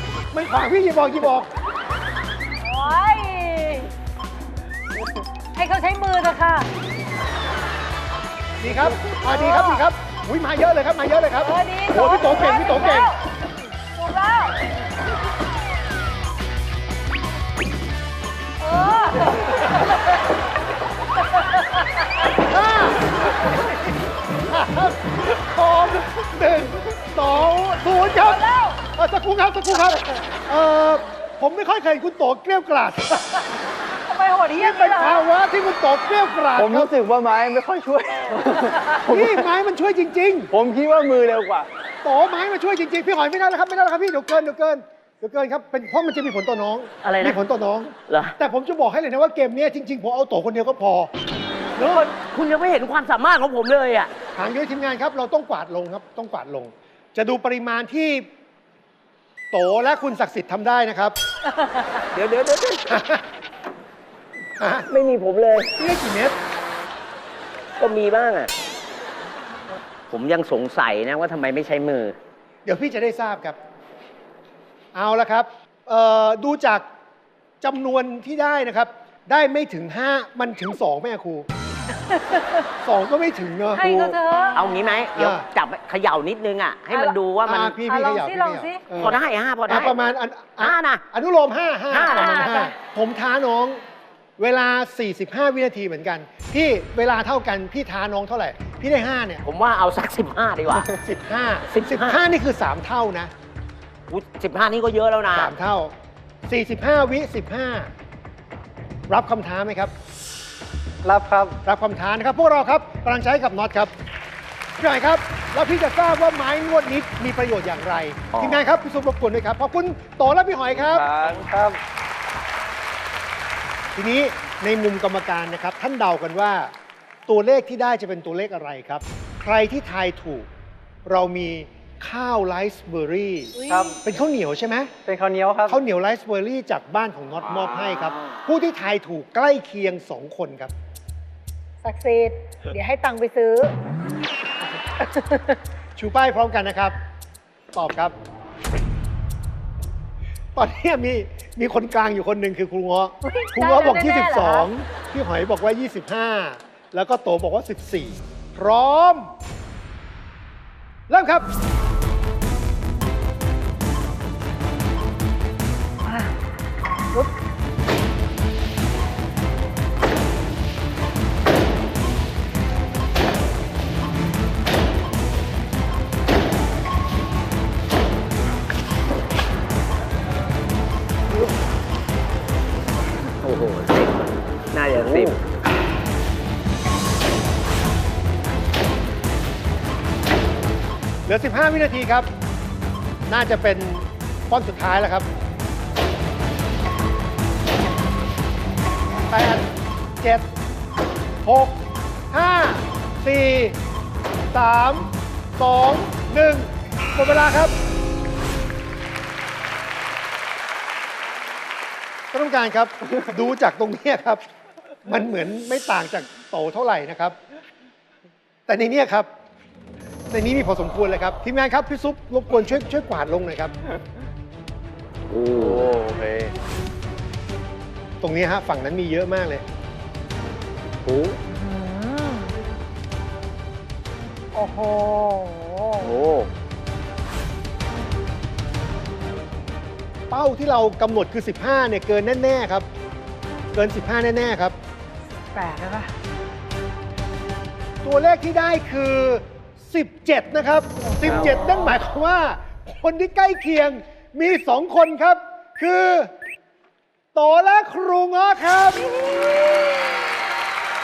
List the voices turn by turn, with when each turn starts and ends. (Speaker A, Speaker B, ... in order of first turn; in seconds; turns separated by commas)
Speaker A: 0.3-1.5, Speaker B: 2.6-3.9, Speaker B: 5.5-6.7, Speaker A: 8.6-13.2, Speaker B: 8.8-9.8, Speaker B: 11.4-13.3, Speaker B: 13.9-14.7, Speaker B: 18.6-20.2, Speaker B: 21.1-22.3, Speaker A: 22.3-33.4, Speaker B: 28.1-28.8, Speaker B: 34.1-35.3, Speaker A: 34.5-36.9, Speaker C: 36.5-39.3, Speaker B: 38.8-39.0, Speaker A: 39.1-40.5, Speaker C: 40.5-41.7, Speaker A: 42.0-51.1, Speaker D: 47.0-47.4, Speaker D: 48.1-48.4, Speaker A: 51.8-52.1, Speaker D: 51.8-54.1, Speaker A: 54.3-58.3, Speaker A: 59.5-61.1, Speaker B: 61.6-61.9, Speaker D: 62.1-62.9, Speaker A: 62.9-63.2, Speaker A: 64.6-64.9, Speaker D: 64.9-65.7, Speaker A: 65.8-66.4, Speaker D: 67.8-68.5, Speaker D: 70.1-72.2, Speaker A: 72.6-73.6, Speaker A: 74.9-76.8, Speaker A: 77.6-81.5, Speaker B: 82.0-82.7, Speaker A: 82.8-84.2, Speaker B: 83.7-85.0, Speaker D: 84.5-87.7, Speaker A: 85.1-85.5, Speaker B: 86.9-87.2, Speaker A: 87.4-93.8, Speaker B: 87.7-88.8, Speaker D: 88.9-90.0, Speaker D: 90.6-91.0, Speaker D: 91.9-92.6, Speaker B: 92.1-92.7, Speaker A: 94.4-99.4, Speaker D: 99.4-100.9, Speaker A: 100.7-103.3, Speaker D: 101.7-102.2, Speaker D: 104.1-105.5, Speaker A: 105.3-105.9, Speaker A: 106.5-107.9, Speaker A: 109.1-109.9, Speaker E: 111.0-111.6, Speaker A: 111.6-113.9, Speaker A: 114.8-121.1, Speaker D: 118.3-118.6, Speaker C: 120.9-121.5, Speaker E: 121.2-121.8, Speaker A: 123.9-126.7, Speaker A: 127.3-130.5, Speaker A: 131.1-134.9, Speaker B: 133.6-134.0, Speaker E: 133.7-134.0, Speaker E: 135.1-135.8, Speaker A: 135.7-140.7, Speaker C: 137.5-138.2, Speaker B: 141.8-143.8, Speaker B: 145.0-145.6, Speaker A: 146.0-147.0, Speaker A: 147.7-148.1, Speaker A: 150.6-159.3, Speaker B: 153.2-154.7, Speaker A: 161.1-161.5, Speaker B: 166.0-166.4, Speaker D: 183.3-185.4, Speaker A: 191.2-192.3, Speaker A: 193.3-195.3, Speaker A: 199.3-199.7, Speaker A: 200.2-200.5, Speaker A: 201.4-203.8, Speaker A: 204.5-207.7, Speaker A: 212.3-214.4, Speaker A: 215.0-217.3, Speaker A: 218.7-219.3, Speaker A: 220.3-223.7, Speaker D: 225.3-225.9, Speaker C: 225.5-226.5, Speaker A: 228.2-229.6, Speaker D: 231.1-231.4, Speaker B: 231.5-232.5, Speaker B: 234.5-236.1, Speaker C: 236.0-236.5, Speaker A: 240.3-242.8, Speaker A: 243.7-244.8, Speaker B: 245.5-246.1, Speaker A: 248.0-256.3, Speaker B: 251.1-251.9, Speaker A: 257.3-259.1, Speaker B: 259.1-259.8